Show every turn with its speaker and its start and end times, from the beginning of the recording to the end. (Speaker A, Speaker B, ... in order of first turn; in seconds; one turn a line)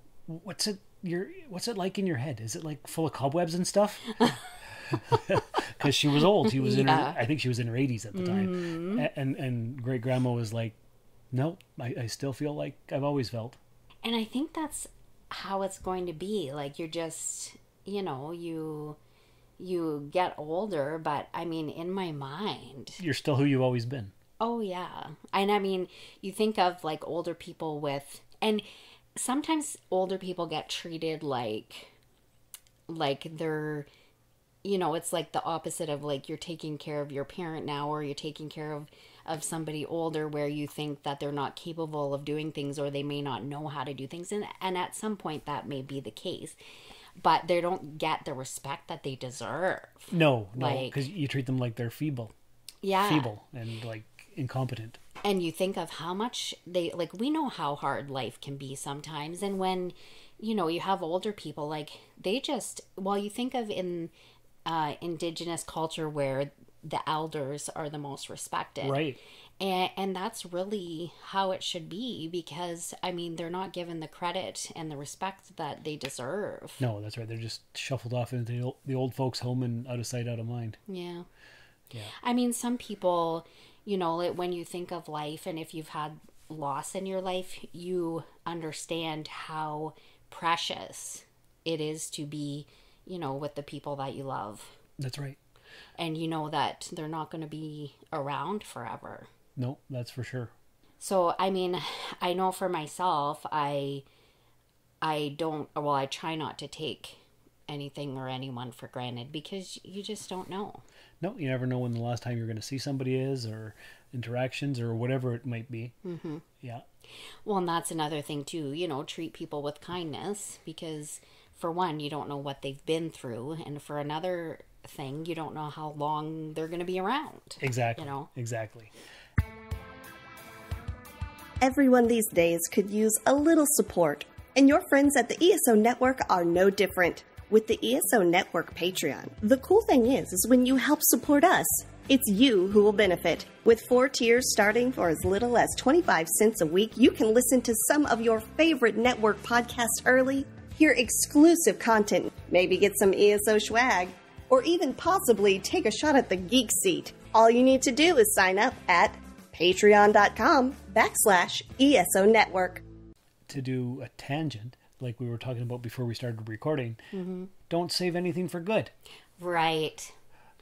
Speaker A: 0.2-4.1
Speaker A: 4.9-10.8
Speaker B: 6.5-7.2
Speaker B: 8.1-9.1
Speaker A: 11.3-13.6
Speaker B: 14.0-19.0
Speaker B: 19.6-23.0
Speaker A: 23.0-24.1
Speaker B: 24.4-28.6
Speaker B: 29.1-31.9
Speaker B: 32.9-33.9
Speaker B: 34.6-46.6
Speaker B: 47.2-51.0
Speaker A: 50.1-52.3
Speaker B: 52.8-53.3
Speaker A: 53.0-55.0
Speaker B: 55.2-64.1
Speaker B: 64.6-69.0
Speaker A: 68.8-69.2
Speaker B: 69.6-76.8
Speaker A: 76.8-80.8
Speaker B: 80.9-81.3
Speaker B: 82.2-94.7
Speaker A: 95.0-95.4
Speaker B: 96.0-99.3
Speaker A: 99.5-100.5
Speaker B: 101.0-104.0
Speaker B: 105.0-110.8
Speaker A: 111.2-115.9
Speaker B: 116.0-116.4
Speaker B: 117.4-128.3
Speaker A: 127.6-128.9
Speaker C: 131.6-162.8
Speaker A: 163.5-167.0
Speaker B: 167.1-167.5
Speaker A: 167.7-168.9
Speaker B: 169.4-170.1